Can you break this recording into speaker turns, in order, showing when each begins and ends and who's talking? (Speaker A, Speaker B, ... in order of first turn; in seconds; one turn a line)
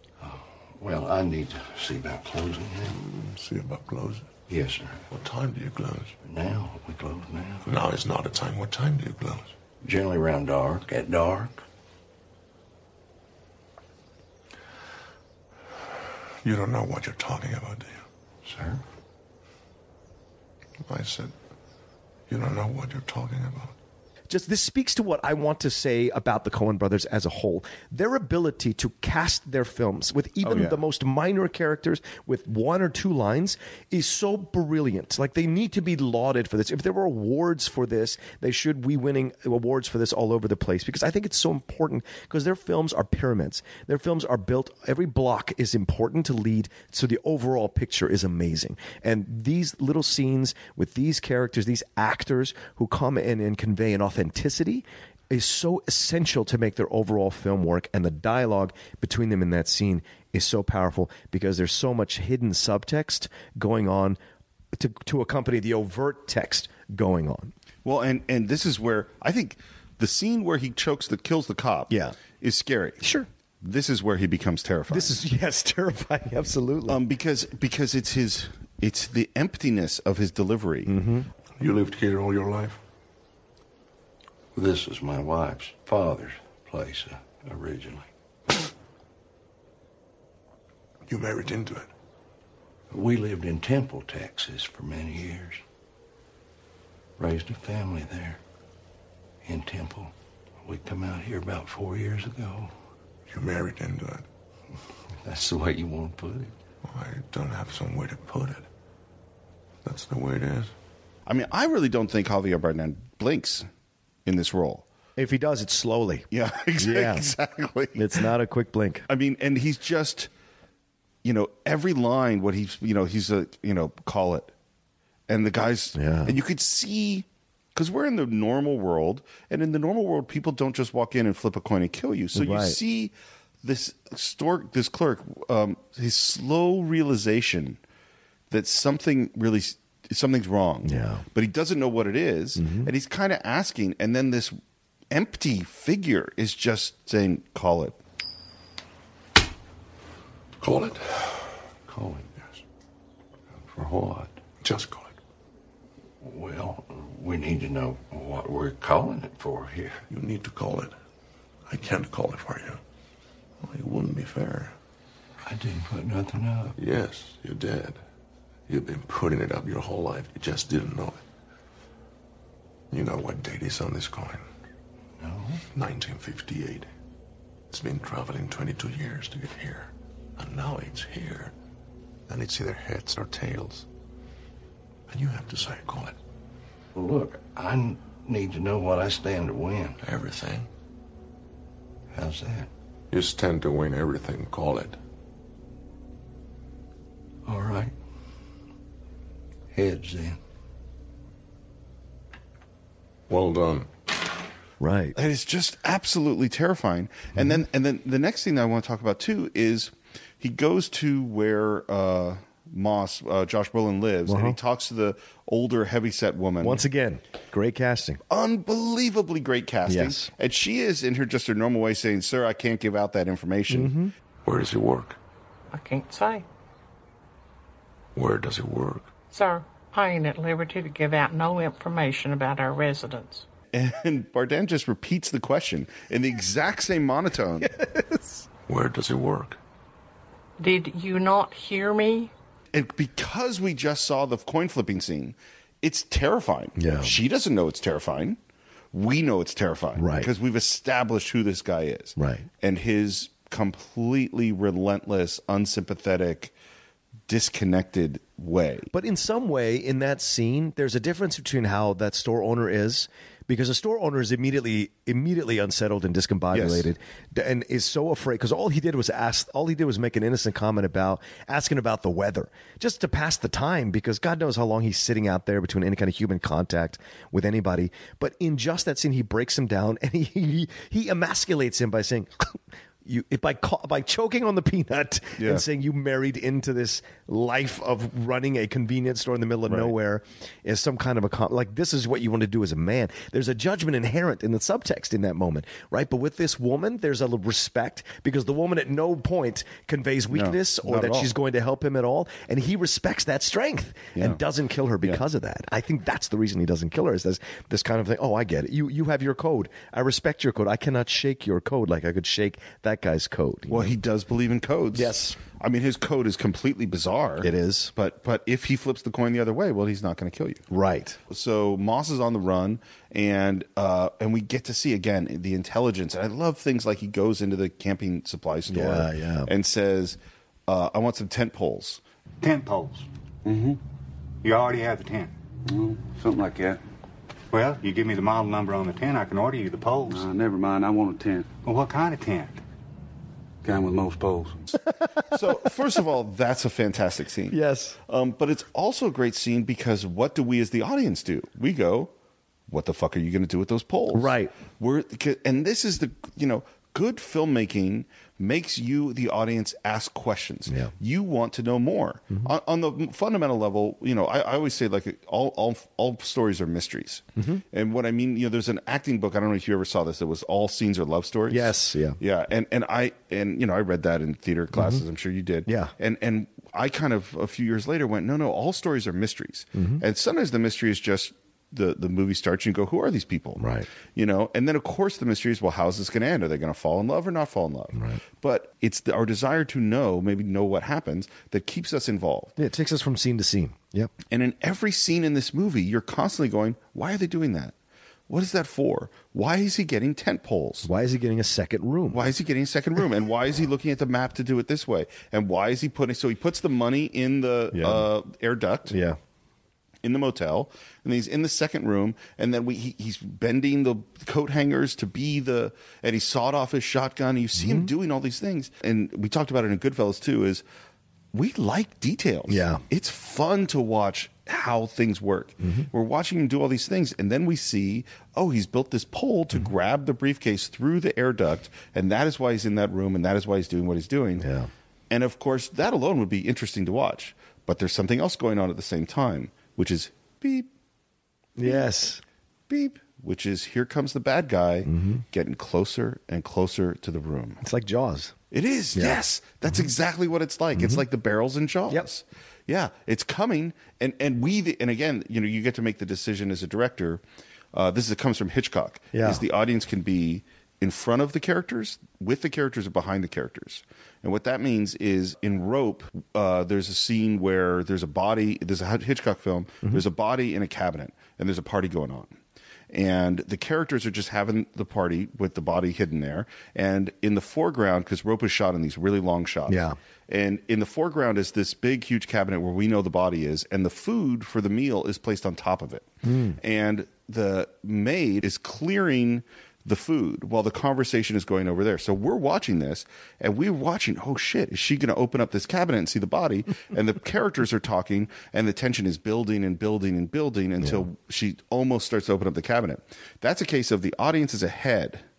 Speaker A: 0.2-3.0
Speaker B: 2.9-4.3
Speaker A: 4.5-5.0
Speaker B: 5.1-6.1
Speaker A: 6.2-7.7
Speaker B: 7.6-9.5
Speaker A: 9.8-11.6
Speaker B: 16.4-18.0
Speaker A: 18.4-18.8
Speaker B: 20.8-21.3
Speaker B: 22.3-23.7
Speaker C: 24.3-64.2
Speaker D: 30.4-30.8
Speaker C: 64.7-67.5
Speaker D: 67.8-73.0
Speaker C: 71.9-72.2
Speaker C: 73.0-73.3
Speaker D: 73.6-75.2
Speaker C: 74.9-77.0
Speaker D: 76.9-80.9
Speaker C: 80.8-81.3
Speaker B: 81.6-82.8
Speaker A: 84.5-88.1
Speaker B: 91.1-91.9
Speaker A: 92.9-95.6
Speaker A: 97.2-98.4
Speaker A: 99.4-102.7
Speaker B: 103.3-104.2
Speaker A: 105.1-106.5
Speaker B: 106.8-108.7
Speaker B: 109.8-110.7
Speaker D: 111.3-113.7
Speaker D: 114.2-114.8
Speaker C: 115.2-116.3
Speaker D: 116.3-118.1
Speaker C: 116.8-117.3
Speaker C: 117.9-119.0
Speaker D: 119.1-120.3
Speaker D: 121.2-124.5
Speaker D: 125.3-137.8
Speaker C: 125.9-126.3
Speaker C: 132.3-132.8
Speaker D: 138.5-144.6
Speaker C: 140.8-141.2
Speaker C: 142.6-142.9
Speaker D: 145.1-148.0
Speaker B: 150.6-151.6
Speaker A: 151.8-152.3
Speaker A: 153.6-154.4
Speaker B: 154.6-155.2
Speaker A: 156.2-160.0
Speaker B: 160.1-160.9
Speaker B: 161.7-162.8
Speaker B: 163.6-164.7
Speaker A: 165.4-166.8
Speaker B: 166.8-168.0
Speaker B: 168.7-171.2
Speaker B: 172.9-174.4
Speaker A: 175.2-175.6
Speaker B: 175.7-176.9
Speaker B: 177.7-181.5
Speaker B: 182.3-183.9
Speaker B: 185.1-186.2
Speaker A: 186.9-190.0
Speaker B: 190.0-190.7
Speaker A: 192.1-192.7
Speaker B: 193.1-195.0
Speaker A: 197.4-197.9
Speaker A: 199.7-200.4
Speaker B: 203.3-203.9
Speaker C: 204.8-205.2
Speaker D: 205.2-216.8
Speaker C: 214.3-214.6
Speaker C: 216.6-218.2
Speaker D: 218.3-223.9
Speaker C: 219.9-220.3
Speaker C: 223.7-224.1
Speaker B: 224.4-225.2
Speaker E: 225.7-226.4
Speaker B: 228.1-229.1
Speaker E: 229.3-233.4
Speaker D: 233.7-237.7
Speaker C: 237.6-238.4
Speaker B: 238.7-239.6
Speaker E: 240.6-242.3
Speaker D: 242.7-248.4
Speaker C: 246.8-247.1
Speaker D: 248.9-256.5
Speaker C: 250.0-250.3
Speaker C: 252.2-252.5
Speaker D: 257.3-258.9
Speaker C: 258.9-313.9
Speaker D: 266.5-266.9
Speaker D: 285.4-285.6
Speaker D: 300.3-301.3
Speaker D: 304.1-304.4
Speaker D: 313.7-320.6
Speaker C: 314.9-315.4
Speaker C: 317.4-317.9
Speaker C: 320.7-321.2
Speaker D: 321.3-332.0
Speaker C: 328.7-329.5
Speaker F: 332.4-333.1
Speaker G: 333.4-333.8
Speaker F: 334.4-335.3
Speaker G: 335.6-336.8
Speaker F: 337.5-340.2
Speaker G: 340.1-341.6
Speaker F: 341.6-342.6
Speaker G: 343.6-344.6
Speaker D: 345.3-347.6
Speaker C: 347.5-348.0
Speaker D: 348.1-352.1
Speaker D: 352.7-383.6
Speaker C: 354.1-354.5
Speaker C: 367.4-367.6
Speaker C: 371.5-372.2
Speaker C: 374.7-375.0
Speaker C: 375.6-375.9
Speaker C: 379.7-380.0
Speaker C: 383.6-383.9
Speaker D: 384.1-392.5
Speaker C: 387.9-388.2
Speaker C: 392.6-394.1
Speaker D: 394.3-397.7
Speaker D: 398.3-400.9
Speaker C: 400.8-402.3
Speaker D: 402.1-408.9
Speaker C: 407.7-408.1
Speaker C: 408.9-409.2
Speaker D: 410.0-420.6
Speaker C: 417.6-417.9
Speaker D: 421.3-434.4
Speaker C: 422.5-422.8
Speaker C: 425.6-425.9
Speaker C: 434.4-434.7
Speaker D: 435.1-440.7
Speaker C: 441.6-442.2
Speaker D: 441.6-441.9
Speaker D: 442.7-447.6
Speaker C: 444.8-445.2
Speaker C: 447.6-448.3
Speaker D: 448.5-457.2
Speaker C: 448.9-449.2
Speaker C: 450.7-451.0
Speaker D: 457.7-472.3
Speaker C: 459.1-459.4
Speaker D: 472.9-486.1
Speaker C: 479.7-480.0
Speaker C: 486.2-486.6
Speaker D: 486.6-505.2
Speaker C: 500.8-501.1